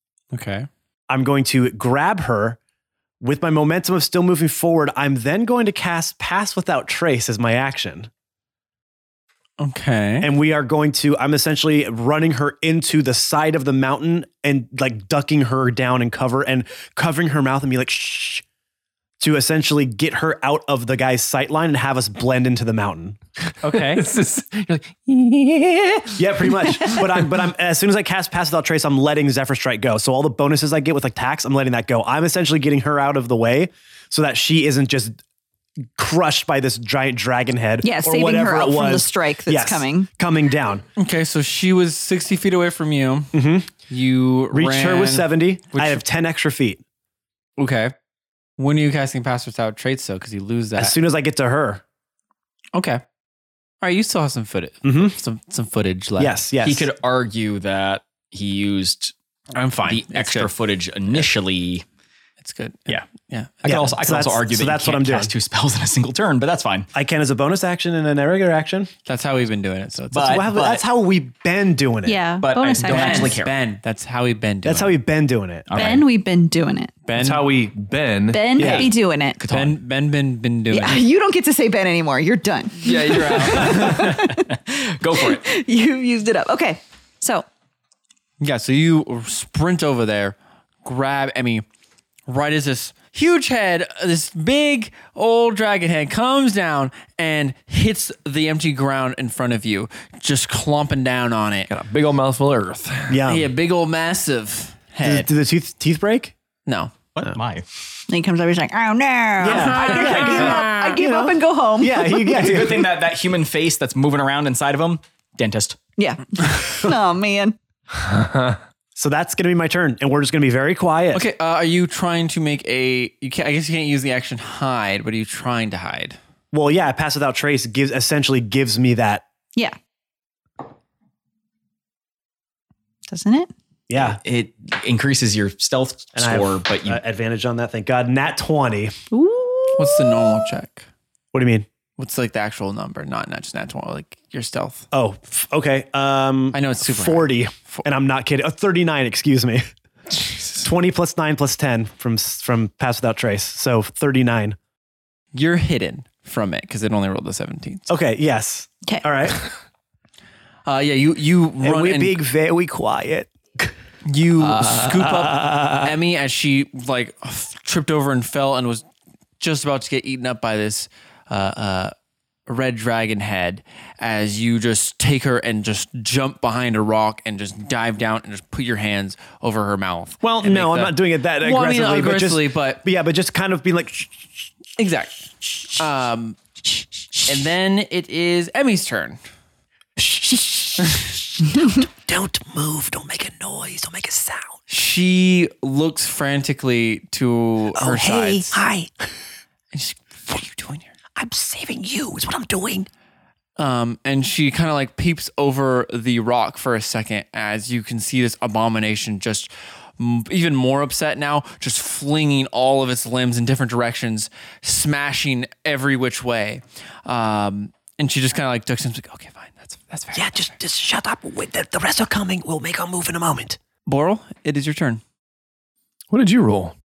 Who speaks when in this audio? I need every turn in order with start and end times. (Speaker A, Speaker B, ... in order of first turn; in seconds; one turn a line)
Speaker A: 0.3-0.7
Speaker B: 1.1-2.6
Speaker B: 3.2-8.1
Speaker A: 9.6-10.3
Speaker B: 10.2-18.4
Speaker B: 19.2-23.2
Speaker A: 23.6-24.0
Speaker C: 23.6-27.2
Speaker B: 26.2-35.2
Speaker B: 36.0-40.9
Speaker D: 37.8-40.1
Speaker A: 41.0-43.3
Speaker B: 43.3-43.7
Speaker A: 43.9-46.0
Speaker B: 44.5-46.8
Speaker A: 47.6-47.9
Speaker A: 48.6-51.0
Speaker B: 50.8-51.8
Speaker A: 52.7-53.0
Speaker A: 53.8-56.4
Speaker B: 54.8-55.1
Speaker B: 56.2-56.9
Speaker E: 56.6-59.1
Speaker A: 59.5-60.5
Speaker E: 59.8-61.9
Speaker A: 62.4-63.6
Speaker E: 63.6-66.9
Speaker B: 63.6-65.3
Speaker B: 66.9-68.9
Speaker A: 69.1-70.5
Speaker E: 70.1-70.8
Speaker B: 70.2-72.2
Speaker D: 72.0-73.4
Speaker E: 72.4-73.5
Speaker A: 72.8-75.0
Speaker B: 74.6-75.7
Speaker E: 75.7-76.1
Speaker D: 75.8-76.9
Speaker A: 77.1-77.5
Speaker C: 77.2-78.5
Speaker D: 78.3-79.4
Speaker B: 78.6-78.9
Speaker E: 78.6-79.8
Speaker A: 79.5-81.0
Speaker D: 80.7-84.5
Speaker E: 82.9-85.5
Speaker A: 82.9-84.1
Speaker C: 83.1-83.9
Speaker D: 85.1-87.5
Speaker A: 88.4-91.6
Speaker A: 92.3-101.7
Speaker C: 101.7-103.2
Speaker B: 103.1-103.5
Speaker A: 103.3-105.3
Speaker B: 105.0-106.3
Speaker A: 106.7-106.9
Speaker E: 107.2-107.7
Speaker D: 108.1-112.4
Speaker B: 109.4-112.9
Speaker A: 109.5-110.2
Speaker E: 112.3-115.8
Speaker D: 116.0-117.6
Speaker C: 118.0-118.6
Speaker B: 119.0-121.2
Speaker A: 121.1-126.2
Speaker B: 126.5-129.2
Speaker D: 133.1-133.5
Speaker B: 133.9-134.2
Speaker E: 134.0-137.0
Speaker B: 136.2-138.9
Speaker D: 139.1-140.4
Speaker A: 139.8-140.9
Speaker B: 141.3-141.7
Speaker A: 142.0-144.9
Speaker B: 144.9-149.6
Speaker A: 146.5-147.9
Speaker B: 150.5-154.6
Speaker A: 155.3-157.9
Speaker B: 157.9-159.4
Speaker A: 160.7-162.2
Speaker B: 161.6-163.7
Speaker A: 164.1-168.8
Speaker B: 164.6-165.9
Speaker A: 169.4-171.9
Speaker A: 172.5-182.8
Speaker B: 180.2-184.5
Speaker A: 184.8-186.4
Speaker A: 187.2-189.2
Speaker B: 190.0-194.6
Speaker A: 190.8-191.1
Speaker A: 194.7-198.6
Speaker B: 197.7-198.9
Speaker A: 199.7-200.9
Speaker B: 201.2-202.9
Speaker A: 203.6-220.5
Speaker B: 220.1-223.6
Speaker A: 223.9-225.0
Speaker C: 226.1-226.8